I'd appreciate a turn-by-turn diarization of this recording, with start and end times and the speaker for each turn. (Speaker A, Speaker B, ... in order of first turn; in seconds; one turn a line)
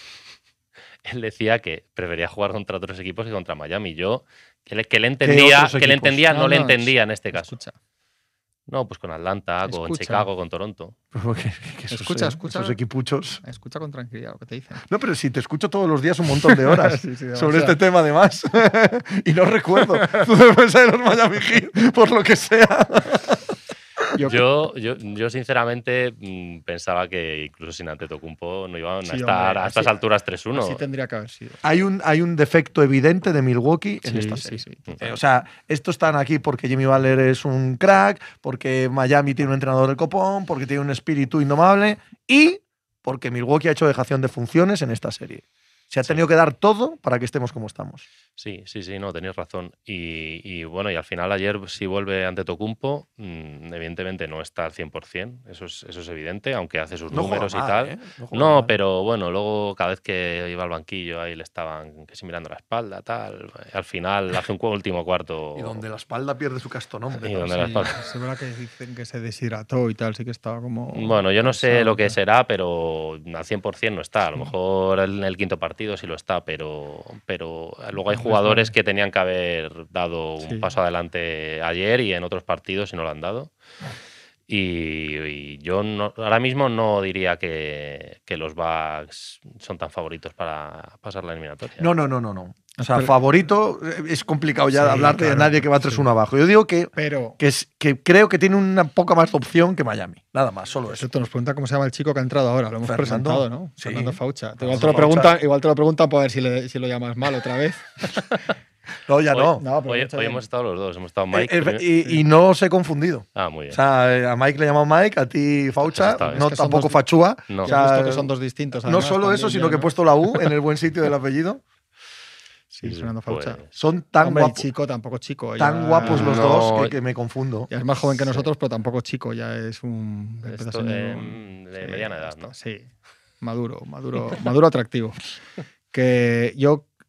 Speaker A: 1.0-7.6
Speaker B: 5.2-6.2
Speaker C: 6.3-7.7
Speaker A: 8.7-10.9
Speaker C: 9.7-10.3
Speaker B: 11.1-13.4
Speaker C: 11.9-12.8
Speaker C: 13.4-14.8
Speaker B: 14.8-23.5
Speaker C: 16.4-17.8
Speaker C: 19.9-20.2
Speaker C: 24.1-24.5
Speaker A: 24.2-30.8
Speaker C: 29.0-30.0
Speaker C: 30.5-31.6
Speaker B: 31.6-48.0
Speaker C: 34.0-35.0
Speaker A: 48.4-65.8
Speaker B: 57.1-58.7
Speaker B: 65.5-67.8
Speaker A: 67.2-68.0
Speaker C: 67.5-72.2
Speaker A: 70.9-83.5
Speaker C: 78.0-78.7
Speaker C: 80.4-80.7
Speaker A: 84.5-91.9
Speaker B: 91.8-101.1
Speaker C: 92.8-93.2
Speaker C: 94.7-96.1
Speaker C: 96.9-97.4
Speaker C: 100.9-108.1
Speaker B: 102.8-105.3
Speaker B: 109.1-109.6
Speaker A: 109.3-111.9
Speaker C: 109.6-110.4
Speaker B: 111.3-118.3
Speaker A: 113.3-113.8
Speaker A: 115.9-116.5
Speaker C: 116.3-117.0
Speaker A: 117.5-117.8
Speaker C: 117.6-119.9
Speaker B: 118.8-121.6
Speaker C: 122.7-123.6
Speaker A: 122.8-123.7
Speaker B: 123.8-124.7
Speaker C: 124.2-126.5
Speaker B: 125.6-127.7
Speaker A: 126.0-127.0
Speaker C: 127.7-132.9
Speaker A: 130.4-132.5
Speaker C: 133.4-135.2
Speaker C: 135.9-136.9